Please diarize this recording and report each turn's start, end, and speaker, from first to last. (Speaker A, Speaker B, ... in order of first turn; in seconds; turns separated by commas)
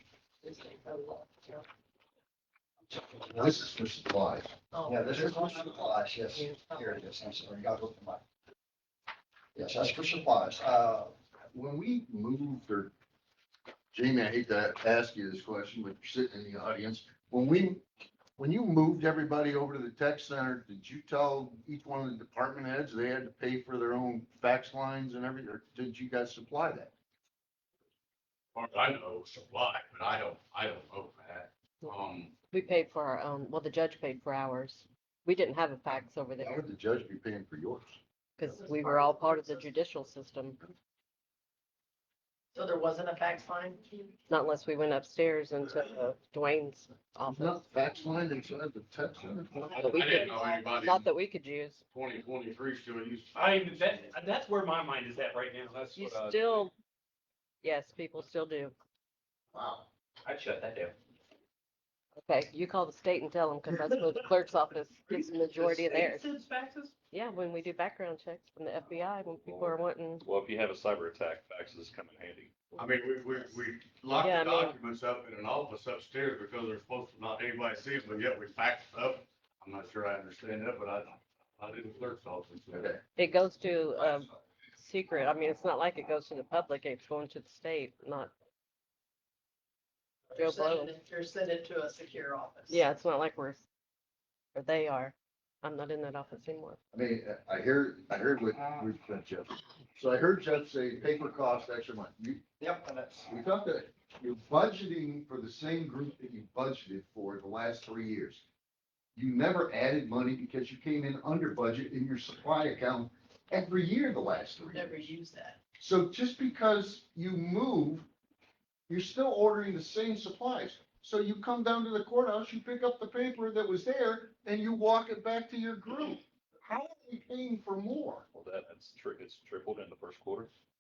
Speaker A: 0.4-0.8, Speaker B: 0.8-1.5, Speaker C: 2.9-3.6, Speaker D: 3.3-4.5, Speaker C: 4.9-8.2, Speaker C: 9.6-11.1, Speaker D: 11.5-12.9, Speaker D: 13.9-17.8, Speaker D: 18.4-26.9, Speaker A: 28.5-32.3, Speaker E: 32.5-36.6, Speaker D: 36.4-38.0, Speaker E: 38.4-40.6, Speaker A: 38.9-39.4, Speaker A: 42.5-43.7, Speaker B: 42.7-43.8, Speaker E: 44.3-47.7, Speaker D: 47.3-49.7, Speaker F: 49.7-50.4, Speaker A: 49.8-51.1, Speaker E: 49.9-51.8, Speaker A: 51.9-54.1, Speaker F: 53.3-56.6, Speaker E: 56.0-56.7, Speaker E: 57.6-58.7, Speaker D: 59.5-59.8, Speaker F: 60.2-60.9, Speaker E: 62.2-66.3, Speaker F: 65.5-66.9, Speaker E: 67.1-70.2, Speaker G: 70.2-72.6, Speaker A: 72.8-82.9, Speaker E: 74.1-74.7, Speaker D: 82.7-83.0, Speaker E: 83.2-88.3, Speaker E: 90.3-90.9, Speaker A: 90.5-91.2, Speaker B: 91.1-92.8, Speaker E: 92.7-93.6, Speaker E: 94.5-96.8, Speaker D: 96.9-102.4, Speaker C: 102.6-103.3, Speaker D: 103.3-108.4, Speaker D: 109.1-115.1, Speaker A: 114.7-115.5, Speaker B: 114.8-115.1, Speaker D: 115.8-118.1, Speaker D: 118.9-128.2, Speaker G: 128.3-130.5